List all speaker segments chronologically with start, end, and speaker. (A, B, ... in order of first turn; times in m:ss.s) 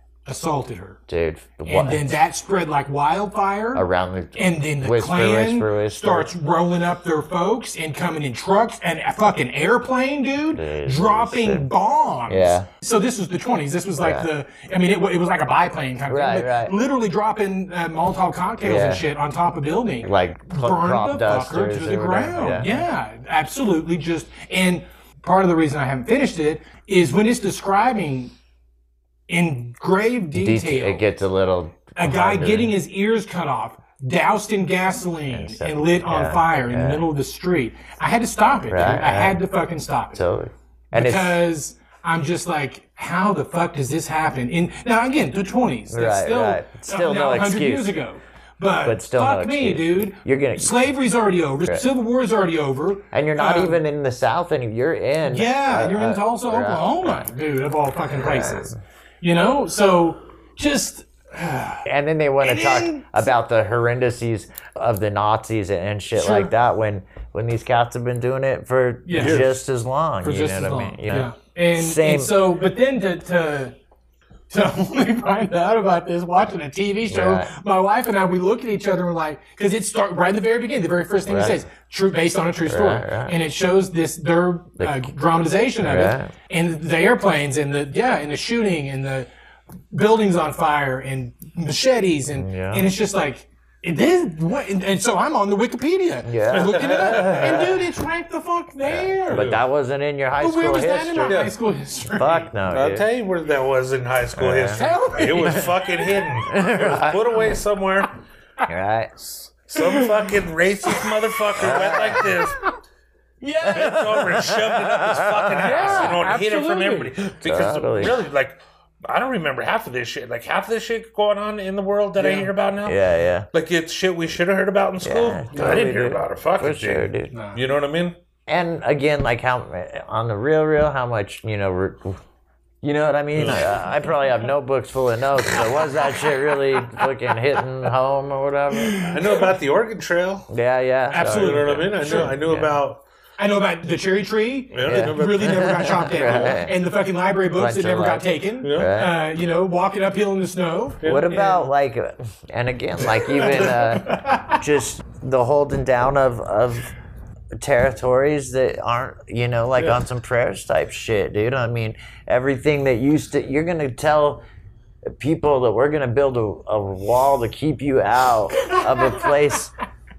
0:00.3-0:01.0 A
0:01.1-0:02.2 B
0:01.7-0:03.8 A
0:03.8-0:06.3 B
0:04.4-0:28.3 A
0:10.5-0:11.7 B
0:12.3-0:12.7 B
0:14.0-0:14.3 B
0:16.1-0:16.8 B
0:18.6-0:19.1 B
0:20.0-0:22.8 B
0:29.3-0:31.0 A
0:30.4-0:32.8 B
0:32.0-0:40.2 A
0:35.3-0:37.1 B
0:38.7-0:39.4 B
0:40.1-0:41.4 B
0:40.9-0:53.8 A
0:45.9-0:48.0 B
0:48.8-0:50.8 B
0:53.1-0:57.3 B
0:55.3-1:01.9 A
0:58.2-0:58.7 B
1:01.9-1:12.3 B
1:02.4-1:03.3 A
1:06.2-1:06.5 A
1:09.1-1:09.4 A
1:09.2-1:09.6 C
1:10.2-1:13.7 A
1:14.5-1:29.3 A
1:17.1-1:17.5 B
1:21.3-1:21.6 B
1:22.7-1:23.4 B
1:24.8-1:25.1 B
1:25.8-1:26.3 B
1:29.9-1:39.5 A
1:32.4-1:32.9 B
1:36.2-1:37.8 B
1:36.5-1:37.7 C
1:38.8-1:41.5 B
1:39.3-1:39.6 C
1:40.4-1:42.5 A
1:41.2-1:41.6 C
1:42.1-1:43.1 B
1:42.7-1:48.1 C
1:44.4-1:45.6 B
1:44.7-1:46.6 A
1:46.5-1:47.5 B
1:48.7-1:49.2 B
1:49.4-1:52.6 C
1:49.7-1:50.3 A
1:50.9-1:51.1 A
1:51.6-1:52.4 B
1:51.9-1:52.2 A
1:53.4-1:54.0 A
1:53.6-2:03.0 C
1:53.6-1:56.2 B
1:55.6-1:57.1 A
1:57.4-1:58.2 B
2:02.2-2:02.5 A
2:02.8-2:03.5 B
2:03.5-2:08.2 C
2:05.0-2:07.3 B
2:05.5-2:05.9 A
2:07.3-2:07.6 A
2:08.5-2:12.2 B
2:12.8-2:19.1 B
2:13.4-2:13.8 C
2:15.5-2:17.1 A
2:18.7-2:19.4 A
2:19.0-2:20.5 C
2:20.5-2:22.7 B
2:21.1-2:22.4 A
2:21.2-2:23.0 C
2:23.4-2:31.0 A
2:24.7-2:25.9 C
2:24.9-2:26.7 B
2:27.6-2:29.2 B
2:28.6-2:28.9 C
2:31.0-2:31.7 C
2:31.0-2:36.9 B
2:33.0-2:34.6 A
2:37.5-2:44.4 B
2:39.8-2:40.0 C
2:45.1-2:49.7 B
2:48.6-2:49.6 A